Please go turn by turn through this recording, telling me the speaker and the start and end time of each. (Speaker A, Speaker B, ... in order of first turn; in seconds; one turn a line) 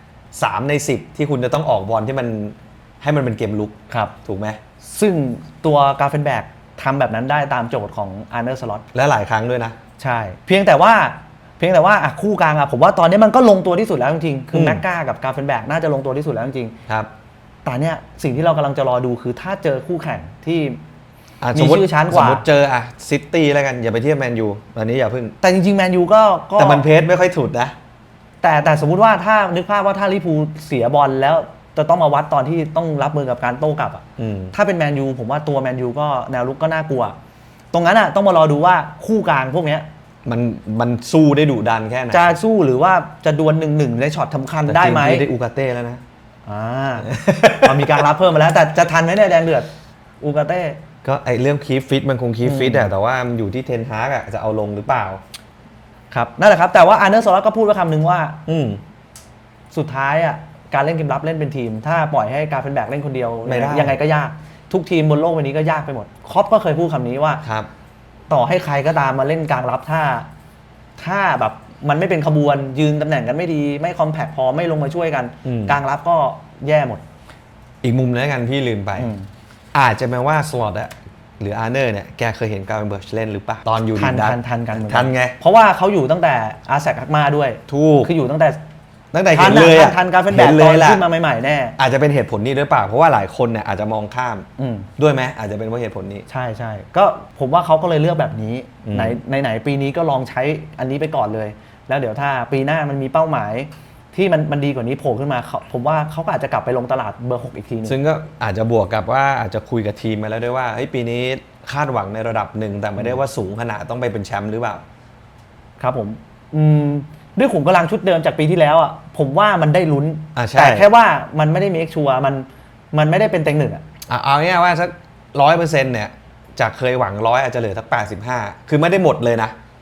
Speaker A: 0.3-4.6
Speaker B: 3.9-4.1
Speaker B: 4.8-8.8
Speaker A: 8.9-9.8
Speaker B: 10.0-16.7
Speaker A: 14.5-14.8
Speaker B: 17.6-20.8
Speaker A: 21.4-25.3
Speaker B: 21.5-22.4
Speaker B: 25.4-26.9
Speaker A: 26.6-27.8
Speaker B: 28.4-37.1
Speaker A: 34.2-34.5
Speaker B: 37.7-39.9
Speaker A: 40.2-42.3
Speaker B: 42.1-45.2
Speaker A: 44.7-46.0
Speaker B: 46.5-47.1
Speaker A: 47.1-47.8
Speaker B: 47.6-49.7
Speaker B: 50.2-50.8
Speaker A: 51.0-55.2
Speaker B: 52.4-52.9
Speaker B: 56.1-58.4
Speaker A: 58.5-58.8
Speaker B: 59.7-67.4
Speaker A: 63.5-64.0
Speaker A: 67.4-67.7
Speaker B: 68.3-70.3
Speaker B: 71.0-77.0
Speaker A: 75.4-75.8
Speaker A: 77.8-79.1
Speaker B: 79.0-79.3
Speaker A: 79.7-85.3
Speaker B: 83.9-88.6
Speaker A: 87.7-88.1
Speaker A: 89.1-91.0
Speaker B: 89.3-91.8
Speaker A: 91.8-94.5
Speaker B: 94.6-94.9
Speaker A: 95.0-96.2
Speaker B: 96.3-107.9
Speaker A: 98.8-99.2
Speaker A: 107.8-114.8
Speaker B: 115.8-123.8
Speaker A: 120.3-120.9
Speaker A: 124.1-129.5